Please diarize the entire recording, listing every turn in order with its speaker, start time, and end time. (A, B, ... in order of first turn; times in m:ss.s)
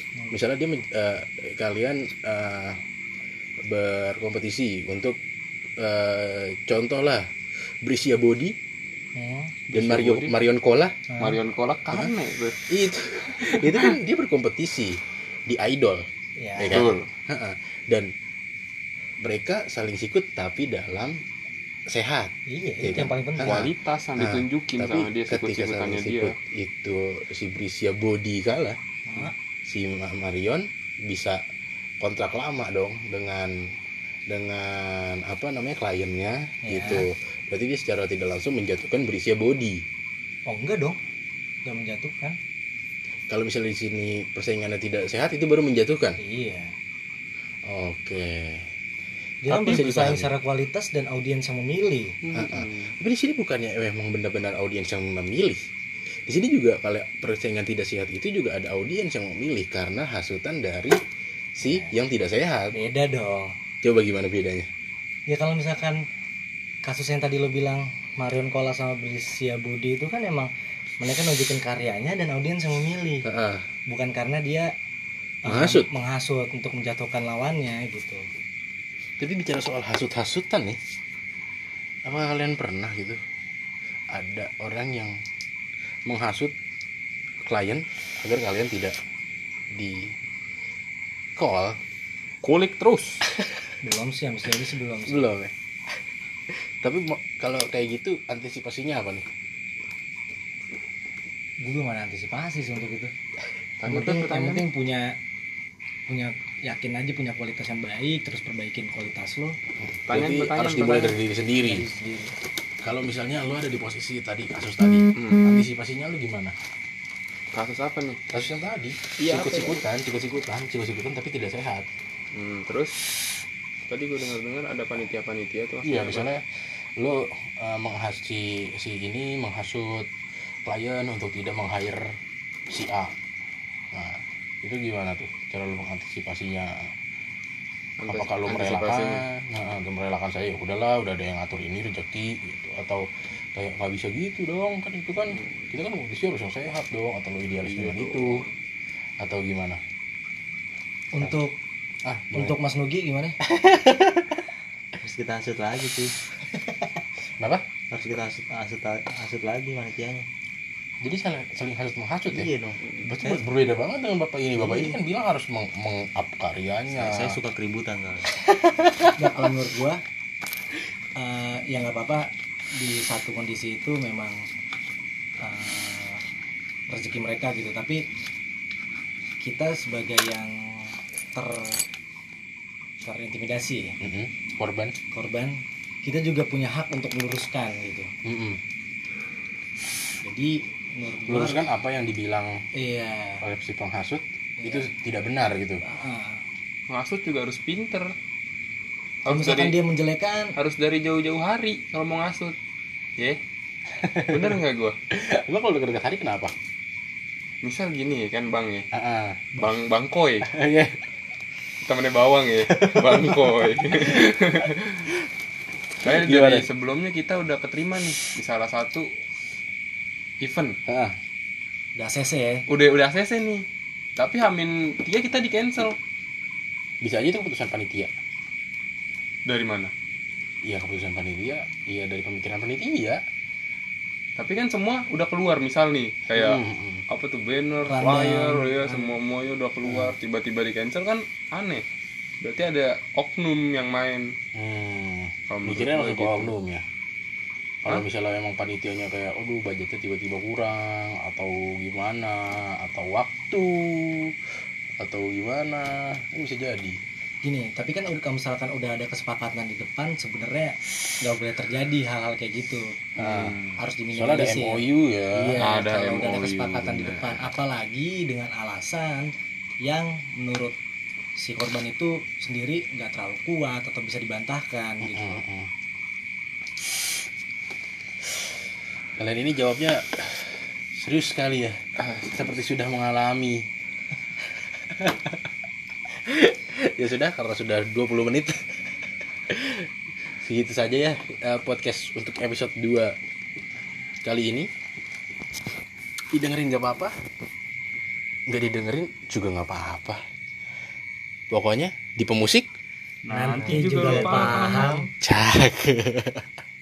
0:00.3-0:02.8 A
0:03.6-0:05.2 A
0:05.8-0:07.3 A
0:07.8-0:08.6 A
0:09.2-0:09.6 B
0:09.7-0:10.4 C
0:09.7-0:11.0 A
0:11.1-0:11.4 B
0:11.2-0:12.6 C
0:12.7-0:16.0 A
0:13.4-0:13.9 C
0:16.4-0:16.8 B
0:16.6-0:18.1 A
0:16.7-0:17.1 C
0:19.2-0:21.2 A
0:21.9-0:28.8 A
0:22.5-0:23.7 B
0:23.4-0:26.3 C
0:29.1-0:29.3 B
0:29.7-0:31.4 A
0:32.0-0:33.8 A
0:34.3-0:39.8 A
0:36.6-0:37.1 B
0:40.5-0:41.0 B
0:41.6-0:42.4 B
0:43.3-0:46.2 A
0:46.2-0:46.7 B
0:47.6-0:48.7 A
0:49.4-0:52.2 B
0:49.5-0:50.3 A
0:52.2-0:52.9 C
0:52.3-0:55.6 A
0:56.3-1:01.0 A
1:01.6-1:02.7 A
1:01.6-1:01.9 B
1:02.7-1:03.5 B
1:03.8-1:04.7 A
1:05.3-1:06.0 B
1:06.8-1:10.5 B
1:11.0-1:13.2 B
1:13.2-1:13.6 A
1:13.9-1:14.7 B
1:15.4-1:15.9 A
1:15.4-1:18.2 B
1:19.2-1:20.8 A
1:22.0-1:23.2 A
1:24.1-1:25.2 A
1:26.0-1:26.5 A
1:27.4-1:29.0 A
1:29.7-1:30.1 A
1:31.4-1:31.8 A
1:32.4-1:33.2 C
1:33.8-1:35.2 B
1:35.1-1:35.5 A
1:36.8-1:39.2 A
1:41.6-1:43.1 B
1:43.8-1:44.6 C
1:43.8-1:45.1 B
1:46.1-1:49.6 B
1:49.8-1:51.9 A
1:50.1-1:51.2 C
1:51.6-1:52.3 B
1:52.8-1:56.5 A
1:55.2-1:55.6 C
1:57.5-1:58.2 C
1:58.3-2:01.9 A
1:59.2-1:59.8 C
2:02.3-2:03.0 C
2:03.9-2:06.3 C
2:05.8-2:06.4 A
2:07.0-2:10.1 A
2:10.6-2:12.2 A
2:12.7-2:13.1 A
2:13.9-2:16.9 A
2:18.0-2:19.2 C
2:18.1-2:28.4 A
2:27.6-2:28.5 C
2:29.2-2:29.8 A
2:31.1-2:31.5 B
2:32.0-2:32.6 A
2:32.3-2:33.4 B
2:33.5-2:34.4 A
2:35.0-2:36.1 D
2:37.4-2:37.6 A
2:37.9-2:40.2 D
2:41.0-2:47.4 A
2:42.3-2:43.4 D
2:44.6-2:45.0 D
2:46.9-2:48.3 D
2:48.6-2:49.1 A
2:49.2-2:50.0 B
2:51.2-2:54.4 B
2:55.4-2:56.2 B
2:56.9-2:58.0 B
2:59.4-3:01.8 B
3:03.0-3:04.0 B
3:04.0-3:04.9 A
3:05.1-3:08.1 B
3:08.2-3:08.6 A
3:10.2-3:11.6 B
3:11.3-3:12.6 A
3:12.7-3:13.4 B
3:13.4-3:15.8 A
3:14.6-3:14.9 B
3:15.8-3:16.4 B
3:16.9-3:18.1 C
3:19.2-3:19.7 C
3:19.3-3:20.5 B
3:20.6-3:22.6 C
3:23.9-3:24.6 A
3:24.3-3:25.0 C
3:25.1-3:26.5 A
3:27.6-3:28.9 C
3:28.9-3:29.7 A
3:29.6-3:30.5 C
3:30.4-3:31.0 A
3:31.8-3:35.1 C
3:32.7-3:34.1 A
3:36.0-3:36.7 A
3:36.0-3:39.1 C
3:40.4-3:40.8 C
3:40.9-3:41.2 A
3:42.0-3:42.6 B
3:42.7-3:43.6 C
3:44.2-3:46.0 C
3:47.0-3:48.1 A
3:49.4-3:49.9 C
3:50.6-3:53.2 A
3:54.4-4:01.8 C
3:56.3-3:57.0 A
3:57.8-3:59.1 B
3:59.8-4:00.2 A
4:02.4-4:04.3 C
4:04.5-4:06.8 A
4:05.5-4:06.5 C
4:07.8-4:14.3 A
4:15.0-4:17.0 A
4:17.4-4:23.0 B
4:23.2-4:23.6 A
4:23.2-4:23.7 C
4:23.8-4:24.8 B
4:24.1-4:25.6 A
4:25.3-4:29.3 B
4:25.6-4:27.5 C
4:29.8-4:30.8 B
4:31.4-4:35.4 B
4:35.0-4:35.7 A
4:39.2-4:43.7 A
4:44.8-4:45.3 A
4:46.2-4:48.8 A
4:49.5-4:53.1 A
4:54.2-4:54.7 A
4:56.3-4:57.1 A
4:58.5-5:00.2 A
5:01.5-5:02.7 A
5:03.2-5:05.0 C
5:03.3-5:05.1 B
5:03.5-5:05.0 D
5:05.2-5:06.5 A